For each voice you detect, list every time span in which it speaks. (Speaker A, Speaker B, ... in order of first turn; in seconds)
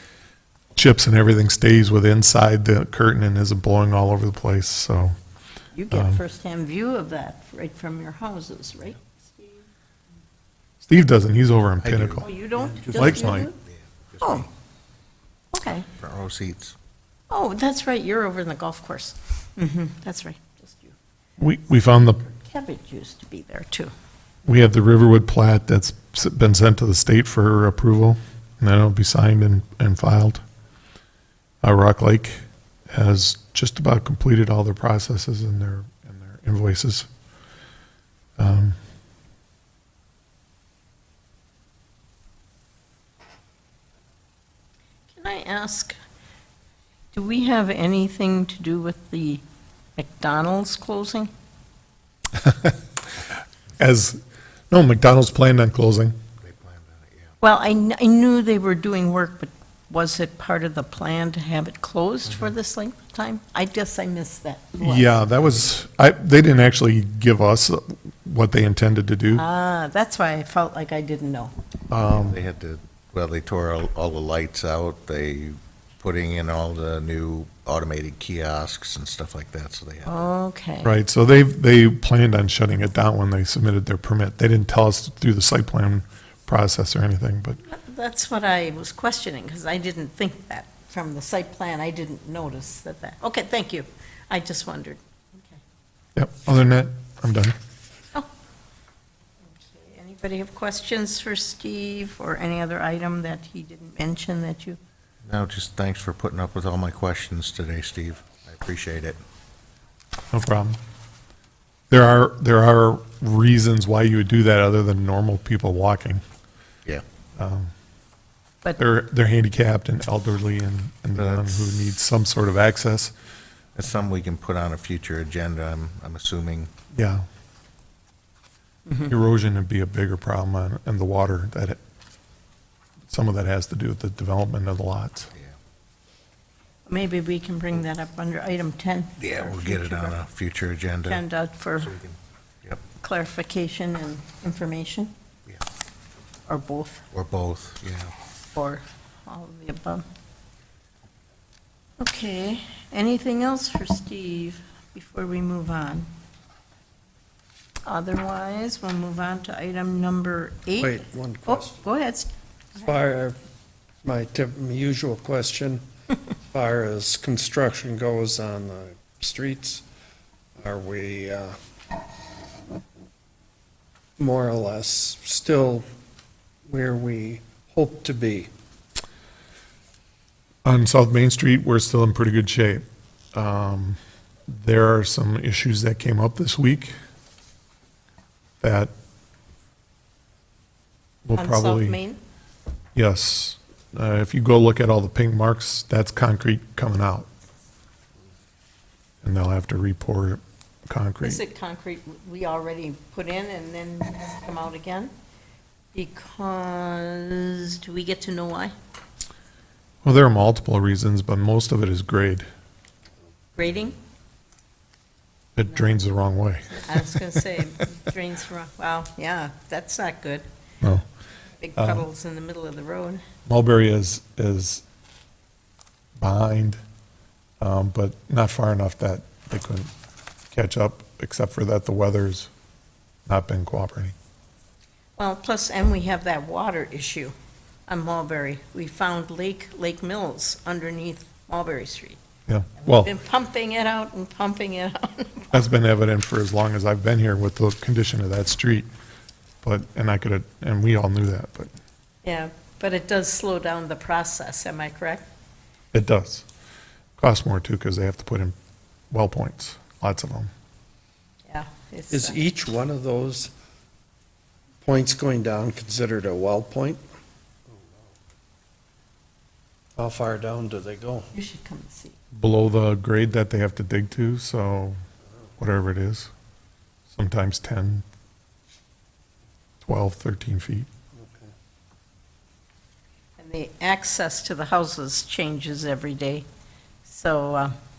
Speaker A: 0.8-5.1, 5.9-6.2, 10.8-12.3, 12.9-13.5, 21.4-22.2, 24.5-30.4, 31.6-37.1, 38.4-38.8, 52.4-52.7, 53.8-56.2, 64.8-69.4, 71.9-72.4, 80.8-87.6, 96.2-97.5, 110.3-110.8, 111.9-116.2, 117.4-117.7, 118.8-123.1, 126.9-127.2, 129.1-131.8, 133.1-135.3, 180.6-184.0, 184.5-186.9, 188.6-188.9, 191.2-192.0, 192.9-197.3, 199.2-201.4, 210.0-212.5, 215.6-217.2, 221.8-222.1, 223.5-224.8, 226.2-226.8, 227.6-229.9, 230.5-232.5, 233.3-234.1, 242.5-243.1, 245.5-248.9, 249.6-251.7, 255.9-256.5, 257.2-258.6, 259.1-260.5, 272.4-275.0, 275.6-276.3, 277.1-278.0, 279.8-280.9
Speaker B: 5.7-9.7, 12.2-13.6, 14.2-14.5, 15.5-15.9, 17.3-20.9, 22.2-23.9, 45.2-46.0, 47.1-49.4, 50.0-51.3, 57.4-65.3, 69.3-71.5, 80.0-81.0, 87.6-95.6, 99.5-104.8, 128.9-129.1, 136.9-140.2, 141.0-141.9, 143.0-145.1, 146.5-147.0, 148.5-150.1, 152.0-156.1, 157.8-162.9, 191.3-192.2, 201.2-205.1, 205.9-208.7, 213.6-214.0, 216.8-220.4, 221.6-223.2, 235.2-237.3, 237.9-242.2, 242.8-245.5, 252.2-255.2, 261.5-262.4, 271.3-272.2, 283.4-286.5, 287.1-287.7
Speaker C: 11.8-14.5, 16.0-16.8, 56.4-57.3, 72.0-80.1, 105.2-109.2, 121.1-121.7, 123.8-126.7, 139.2-141.2, 141.8-142.8, 147.1-148.1
Speaker D: 160.8-161.8, 162.8-163.4, 164.0-165.8, 166.5-169.8, 170.6-171.6, 174.2-175.8, 176.7-178.5, 262.1-263.5, 264.8-267.0, 270.0-271.3, 281.2-281.5